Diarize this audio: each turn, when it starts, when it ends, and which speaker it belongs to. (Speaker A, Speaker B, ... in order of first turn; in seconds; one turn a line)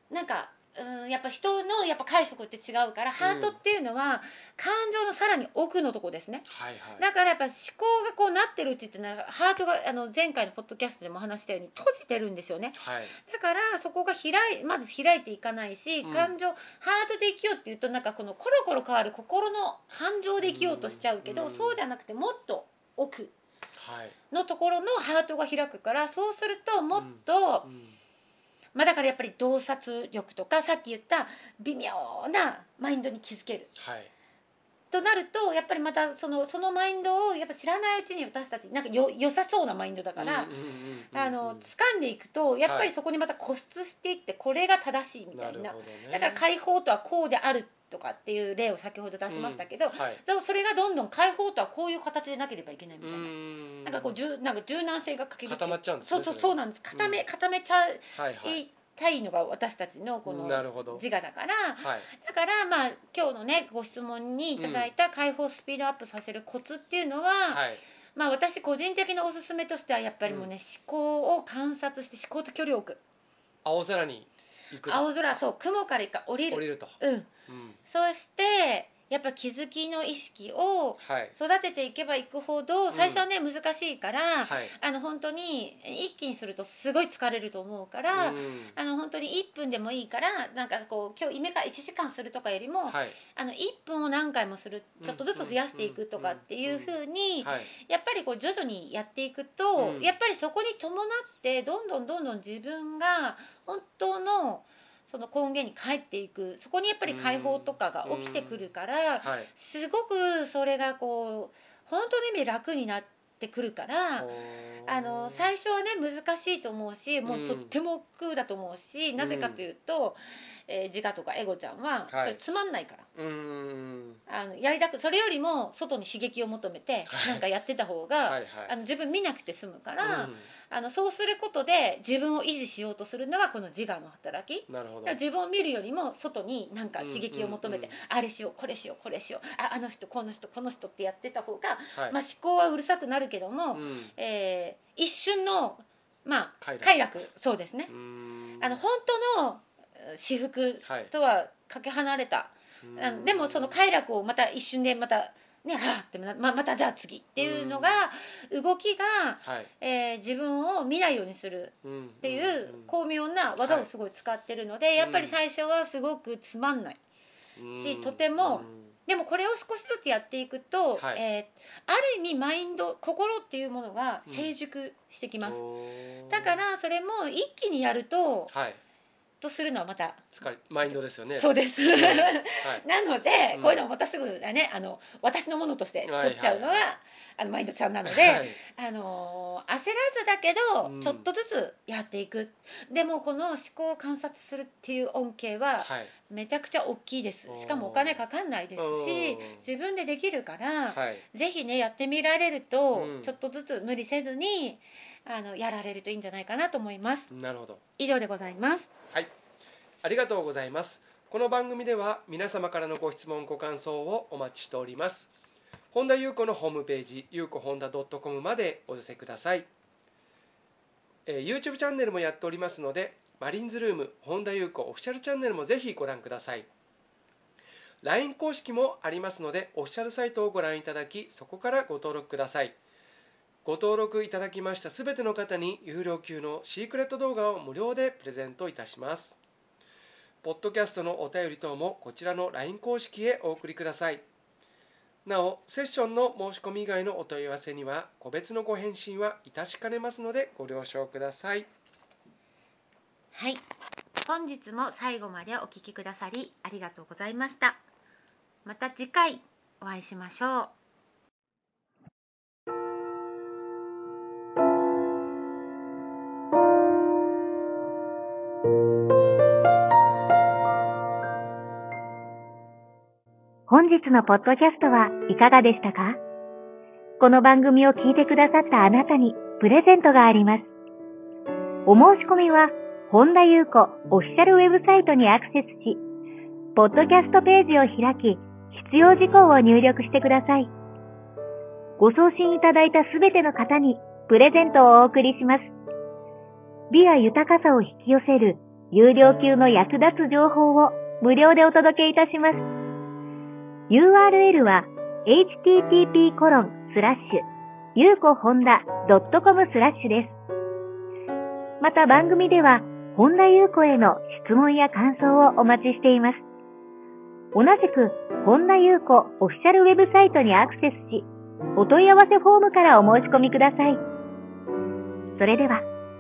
Speaker A: 0.1-6.5
Speaker B: 3.2-3.6
Speaker B: 6.5-7.0
Speaker A: 7.0-23.3
Speaker B: 12.8-13.2
Speaker B: 16.0-16.3
Speaker B: 20.4-21.8
Speaker B: 23.8-24.1
Speaker A: 24.3-27.7
Speaker B: 26.9-28.0
Speaker A: 28.8-33.7
Speaker B: 33.8-34.1
Speaker A: 34.9-40.5
Speaker B: 40.2-41.7
Speaker A: 41.1-53.3
Speaker B: 42.7-42.9
Speaker B: 45.3-46.4
Speaker B: 49.3-50.2
Speaker B: 53.0-54.2
Speaker A: 53.8-67.6
Speaker B: 55.5-57.2
Speaker B: 58.1-58.6
Speaker B: 60.3-61.0
Speaker B: 61.8-62.1
Speaker B: 64.6-64.9
Speaker B: 67.5-67.8
Speaker A: 68.2-73.0
Speaker B: 70.2-70.5
Speaker B: 73.7-75.1
Speaker A: 74.8-77.3
Speaker B: 76.5-77.8
Speaker A: 77.9-114.3
Speaker B: 81.0-81.3
Speaker B: 82.9-83.2
Speaker B: 84.5-84.8
Speaker B: 88.1-88.8
Speaker B: 92.9-93.2
Speaker B: 95.0-97.7
Speaker B: 99.8-100.1
Speaker B: 107.1-108.6
Speaker B: 109.2-109.5
Speaker B: 114.2-115.5
Speaker A: 114.8-123.1
Speaker B: 117.2-117.7
Speaker B: 119.2-119.6
Speaker B: 122.1-122.4
Speaker B: 123.2-124.2
Speaker A: 124.3-147.9
Speaker B: 127.1-127.4
Speaker B: 128.3-128.7
Speaker B: 130.0-130.5
Speaker B: 134.7-135.2
Speaker B: 137.0-137.9
Speaker B: 143.7-144.1
Speaker B: 146.6-147.2
Speaker B: 147.9-148.8
Speaker A: 148.6-167.0
Speaker B: 150.8-151.1
Speaker B: 152.8-153.8
Speaker B: 157.4-158.1
Speaker B: 159.4-159.7
Speaker B: 161.8-162.9
Speaker B: 163.6-163.9
Speaker B: 165.0-165.4
Speaker B: 167.6-168.9
Speaker A: 167.8-175.6
Speaker B: 171.0-171.2
Speaker B: 174.3-174.5
Speaker B: 175.4-176.6
Speaker A: 176.3-178.5
Speaker B: 178.5-178.8
Speaker A: 179.4-180.3
Speaker B: 180.3-182.8
Speaker A: 181.3-207.3
Speaker B: 183.5-183.8
Speaker B: 186.1-186.9
Speaker B: 188.0-188.6
Speaker B: 190.8-191.3
Speaker B: 195.8-196.1
Speaker B: 197.5-198.2
Speaker B: 198.8-199.7
Speaker B: 200.9-201.2
Speaker B: 202.9-203.3
Speaker B: 207.3-207.8
Speaker A: 208.0-208.9
Speaker B: 210.0-215.3
Speaker B: 215.9-219.7
Speaker B: 221.3-226.7
Speaker B: 228.0-232.8
Speaker B: 233.7-239.4
Speaker B: 240.4-244.2
Speaker B: 245.2-251.7
Speaker A: 253.3-253.6
Speaker A: 254.2-257.8
Speaker A: 258.6-260.7
Speaker C: 273.7-276.2
Speaker C: 277.2-280.7
Speaker C: 281.9-286.0
Speaker C: 286.8-290.7
Speaker C: 292.0-295.7
Speaker C: 296.9-302.7
Speaker C: 303.9-310.4
Speaker C: 311.8-316.4
Speaker C: 317.5-324.0
Speaker C: 325.4-325.9